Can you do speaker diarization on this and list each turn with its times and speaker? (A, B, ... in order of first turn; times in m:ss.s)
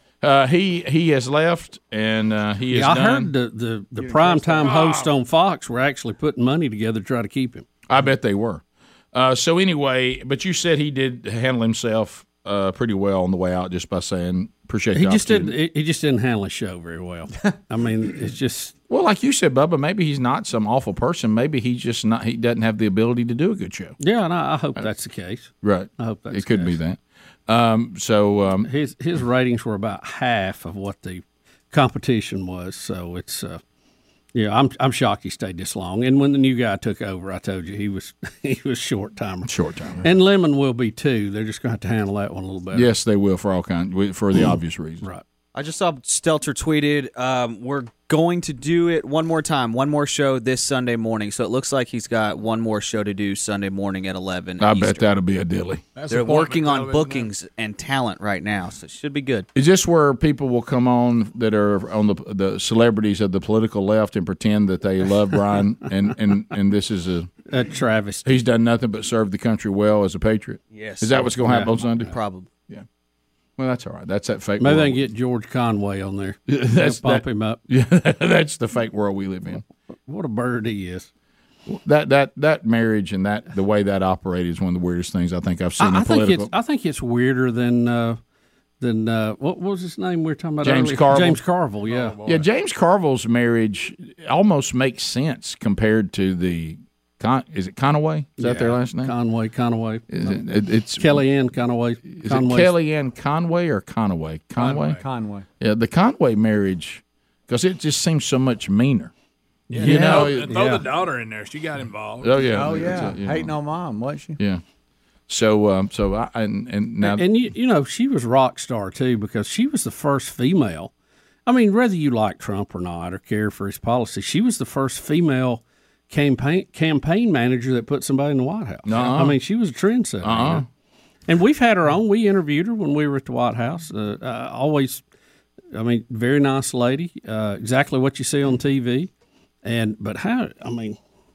0:00.2-0:03.3 A
0:02.7-0:07.7 B
0:04.0-0:04.8 C
0:07.9-0:15.5 A
0:15.0-0:18.8 B
0:18.9-0:24.0 A
0:24.0-0:26.8 B
0:25.6-0:28.7 A
0:28.6-0:33.6 B
0:34.3-0:39.5 B
0:39.5-0:40.0 A
0:40.0-0:42.9 B
0:42.7-0:45.0 A
0:45.5-0:55.1 D
0:54.6-0:55.8 A
0:56.0-0:57.3 E
0:56.1-0:59.5 D
0:59.6-1:07.3 A
1:07.5-1:08.3 B
1:08.2-1:12.1 A
1:10.7-1:12.5 D
1:11.4-1:11.7 B
1:13.6-1:15.0 A
1:14.6-1:17.6 B
1:16.5-1:19.6 A
1:20.1-1:21.1 B
1:21.7-1:26.5 A
1:25.8-1:28.2 B
1:28.8-1:32.2 B
1:30.6-1:31.4 A
1:31.9-1:32.5 E
1:32.2-1:39.1 A
1:38.4-1:40.4 B
1:40.1-1:41.2 A
1:41.0-1:42.7 B
1:42.2-1:45.0 A
1:44.6-1:45.5 C
1:45.6-1:49.1 A
1:49.7-1:52.9 E
1:49.8-1:50.6 A
1:49.8-1:50.9 B
1:52.2-1:53.5 A
1:52.5-1:54.4 C
1:54.4-1:54.6 A
1:55.3-1:57.2 A
1:57.0-2:00.9 B
2:01.5-2:10.6 B
2:08.9-2:09.4 A
2:10.2-2:10.6 A
2:11.3-2:15.0 B
2:15.7-2:19.1 B
2:19.6-2:21.0 B